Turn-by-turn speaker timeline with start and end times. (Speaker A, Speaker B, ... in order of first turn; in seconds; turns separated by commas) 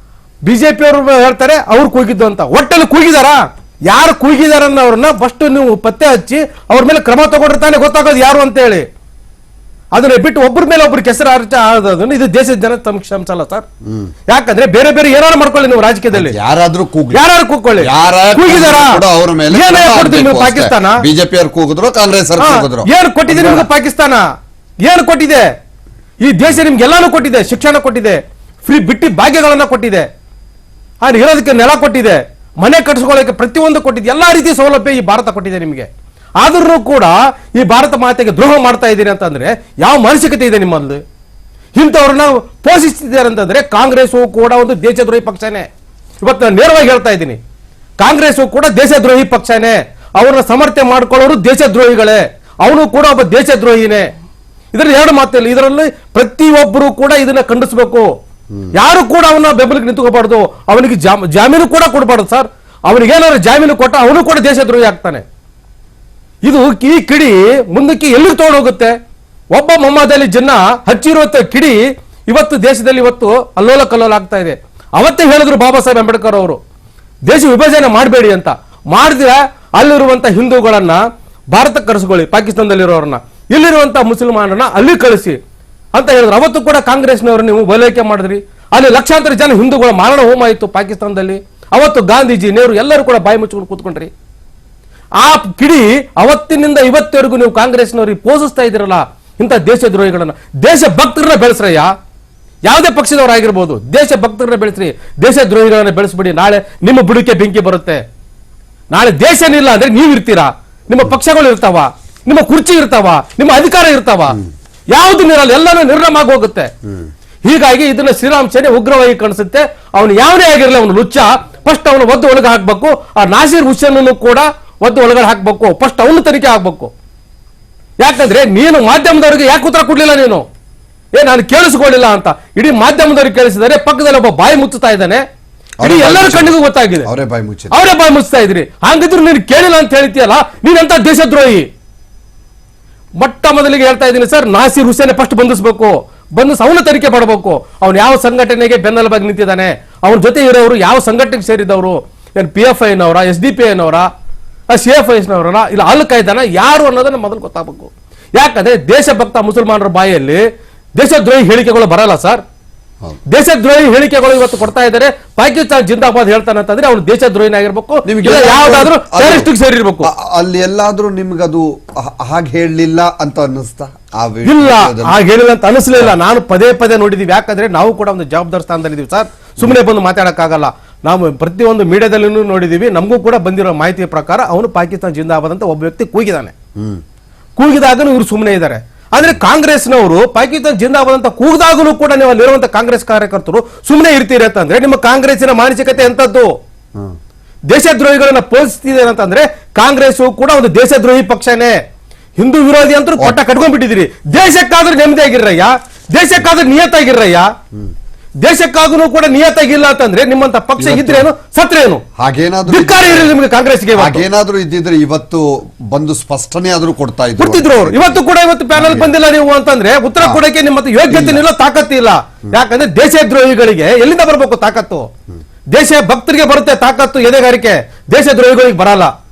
Speaker A: 0.5-8.9, Speaker A: 9.9-13.7, Speaker B: 13.9-14.1, Speaker A: 14.3-16.4, Speaker B: 16.1-17.2, Speaker A: 17.1-21.1, Speaker B: 17.8-23.7, Speaker A: 22.4-24.2, Speaker A: 24.8-25.5, Speaker A: 26.2-30.1, Speaker A: 31.0-41.0, Speaker A: 41.8-45.7, Speaker A: 46.2-47.4, Speaker A: 48.0-54.1, Speaker A: 54.7-58.1, Speaker A: 58.7-65.2, Speaker A: 66.4-69.0, Speaker A: 69.5-76.6, Speaker A: 77.2-85.4, Speaker A: 86.0-94.1, Speaker A: 95.2-101.9, Speaker A: 102.7-108.0, Speaker A: 108.9-114.4, Speaker A: 114.9-116.7, Speaker A: 117.4-126.9, Speaker A: 128.0-130.4, Speaker A: 131.1-135.2, Speaker B: 135.8-137.8, Speaker A: 135.8-137.1, Speaker A: 137.7-141.7, Speaker A: 143.2-154.1, Speaker A: 154.7-160.4, Speaker A: 161.0-162.4, Speaker A: 163.3-170.1, Speaker B: 168.1-169.5, Speaker B: 170.0-175.2, Speaker A: 174.4-186.5, Speaker B: 186.8-187.0, Speaker A: 187.6-196.6, Speaker A: 197.7-201.8, Speaker A: 202.4-207.5, Speaker A: 208.4-212.0, Speaker B: 210.8-211.3, Speaker B: 212.2-213.3, Speaker A: 212.7-214.3, Speaker B: 213.9-218.2, Speaker A: 217.4-225.1, Speaker B: 218.8-219.1, Speaker B: 221.1-221.4, Speaker A: 225.7-229.1